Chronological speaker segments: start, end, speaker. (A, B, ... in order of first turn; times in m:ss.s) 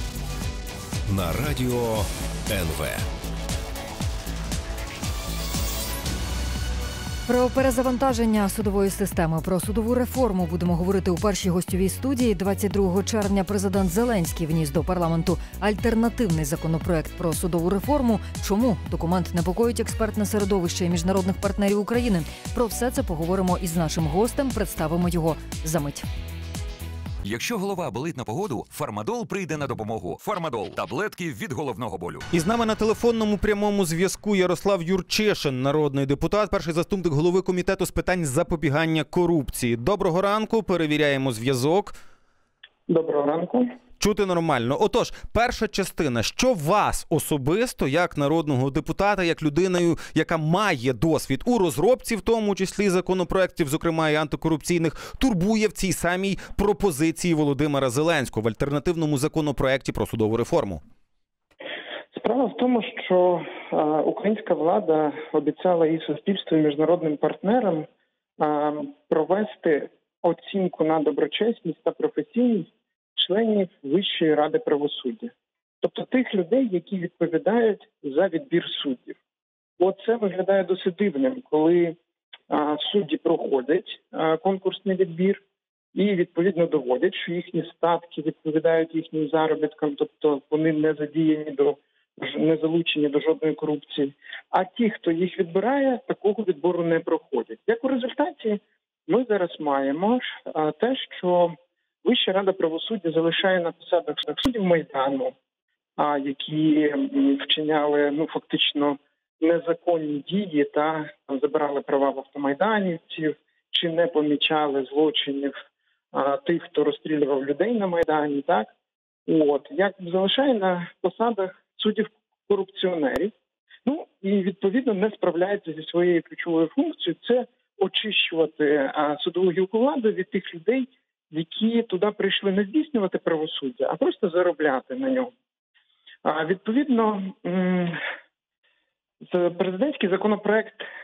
0:01.1-0:03.0 A
0:07.3-0:26.0 B
0:27.2-0:32.3 C
0:32.3-0:41.9 D
0:42.9-0:43.7 E
0:44.0-1:00.8 D
1:02.1-1:07.9 E
1:08.4-1:19.2 E
1:19.8-1:22.0 E
1:22.5-1:25.4 E
1:25.9-1:45.3 E
1:46.0-1:55.5 E
1:56.1-1:58.7 E
1:59.3-2:03.3 E
2:03.8-2:15.3 E
2:16.2-2:18.0 E
2:19.2-2:20.8 E